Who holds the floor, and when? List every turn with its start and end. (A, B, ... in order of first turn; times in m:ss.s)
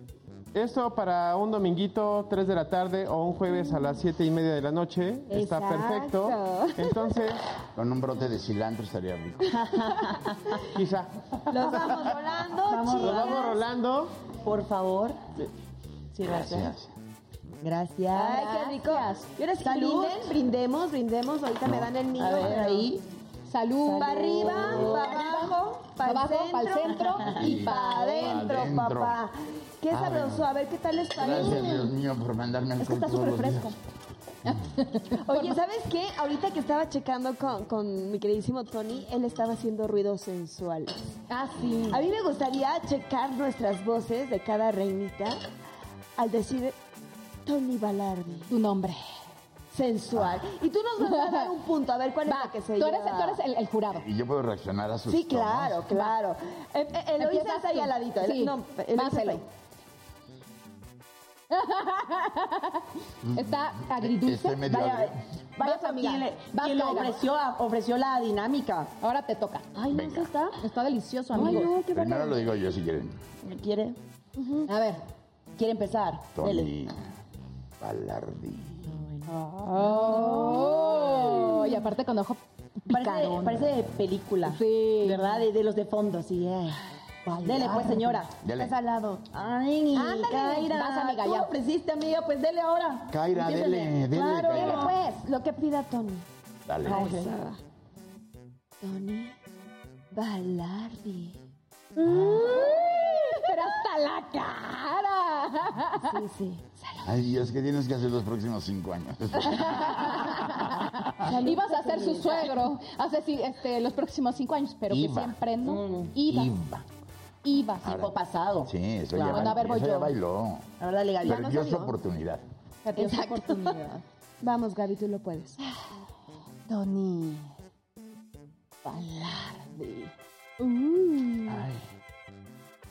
0:00.5-0:07.4 A
0:05.3-0:07.2 B
0:07.8-0:09.8 C
0:09.5-0:10.6 D
0:10.6-0:12.1 A
0:11.5-0:13.6 B
0:12.6-0:13.6 D
0:12.9-0:14.1 A
0:14.4-0:15.4 D
0:16.1-0:16.7 D
0:16.2-0:16.9 C
0:17.6-0:18.5 D
0:18.1-0:22.9 B
0:18.2-0:19.3 E
0:19.6-0:20.3 D
0:22.2-0:23.0 D
0:23.5-0:28.4 E
0:23.8-0:25.2 D
0:24.0-0:31.9 B
0:27.3-0:29.2 C
0:29.9-0:30.4 C
0:31.1-0:33.7 C
0:32.8-0:33.8 E
0:34.4-0:35.6 E
0:35.1-0:41.0 B
0:41.3-0:42.0 E
0:41.9-0:45.4 B
0:46.2-0:46.8 B
0:47.4-0:48.5 B
0:48.5-0:49.0 E
0:49.7-0:53.4 B
0:50.2-0:50.4 C
0:51.0-0:51.5 E
0:52.3-0:54.1 E
0:53.9-0:55.9 C
0:55.1-0:59.4 B
0:57.2-0:59.4 E
1:01.5-1:04.7 E
1:03.2-1:05.2 C
1:04.6-1:08.9 D
1:05.6-1:07.2 E
1:09.0-1:09.8 E
1:09.8-1:10.6 B
1:09.9-1:10.3 C
1:10.6-1:11.7 E
1:11.3-1:12.5 B
1:11.4-1:13.2 C
1:13.4-1:14.0 D
1:14.4-1:14.7 B
1:14.7-1:15.0 E
1:15.6-1:16.7 D
1:16.4-1:17.0 C
1:17.8-1:19.0 C
1:18.9-1:21.4 D
1:19.3-1:23.7 E
1:22.9-1:26.8 D
1:24.5-1:25.4 E
1:27.3-1:29.2 B
1:27.4-1:28.3 D
1:28.4-1:28.8 C
1:29.3-1:35.0 D
1:30.0-1:31.5 E
1:33.1-1:35.0 C
1:34.4-1:36.3 B
1:36.7-1:37.0 C
1:36.8-1:37.6 B
1:36.9-1:37.3 D
1:38.8-1:39.4 B
1:40.1-1:41.4 B
1:42.0-1:46.2 E
1:42.2-1:43.5 B
1:46.0-1:46.8 B
1:47.0-1:51.3 C
1:49.5-1:56.5 E
1:51.2-1:52.5 B
1:54.9-1:55.4 C
1:55.6-1:56.2 D
1:56.2-1:56.9 C
1:57.4-1:58.0 E
1:57.8-1:58.1 C
1:57.8-1:59.5 D
1:58.6-2:00.7 C
1:59.2-2:00.2 E
2:00.8-2:01.9 D
2:01.2-2:02.4 C
2:02.9-2:04.0 E
2:03.0-2:03.8 B
2:03.0-2:03.4 D
2:04.4-2:05.6 B
2:06.7-2:07.6 E
2:08.8-2:11.6 E
2:11.5-2:11.8 C